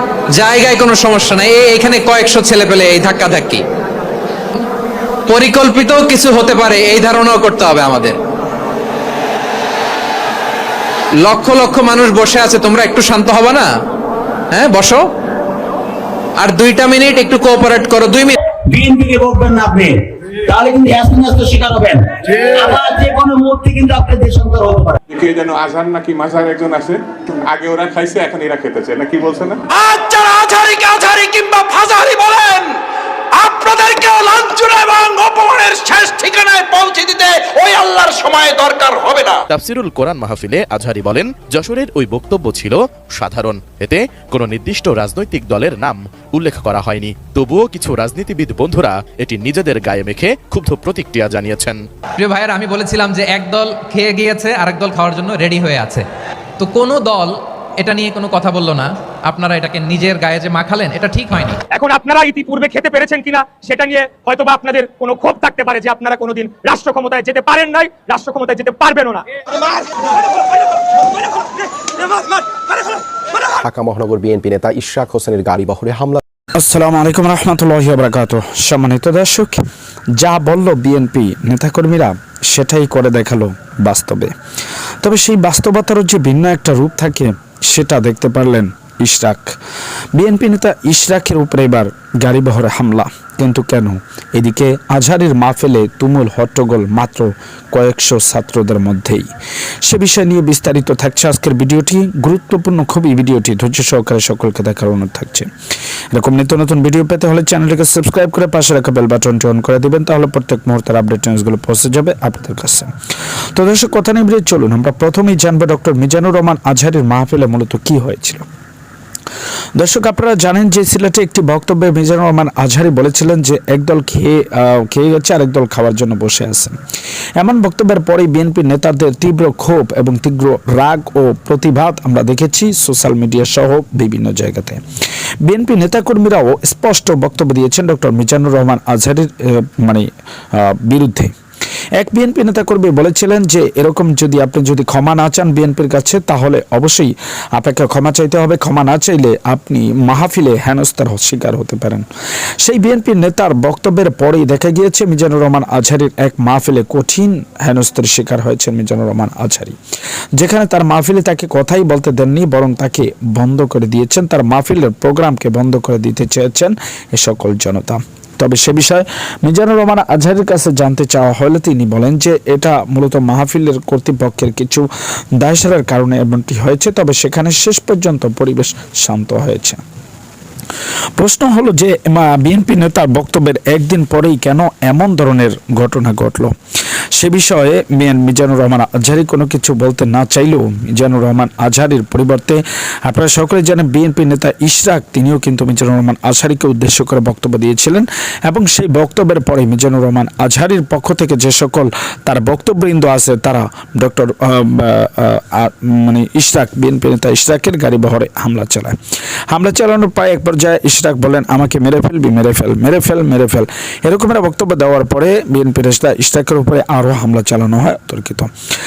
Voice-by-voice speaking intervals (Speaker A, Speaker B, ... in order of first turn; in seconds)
Speaker A: 0.3-3.6, 5.3-8.2, 11.2-13.7, 14.5-15.0, 16.4-18.4, 52.2-56.0, 56.6-61.6
Speaker B: 18.5-25.0
Speaker C: 25.1-29.6
Speaker D: 29.7-32.8, 33.3-39.4
Speaker E: 39.5-51.8
Speaker F: 61.7-69.7
Speaker G: 73.5-76.2
Speaker H: 76.5-79.6, 80.2-84.3, 85.0-89.5, 90.2-99.3, 99.8-105.5, 106.1-112.9, 113.5-118.4, 119.8-126.7, 127.4-134.8, 135.4-141.3, 142.0-152.1, 152.6-159.8, 160.3-174.9, 175.4-179.8, 181.2-186.5, 187.2-208.9, 209.5-218.5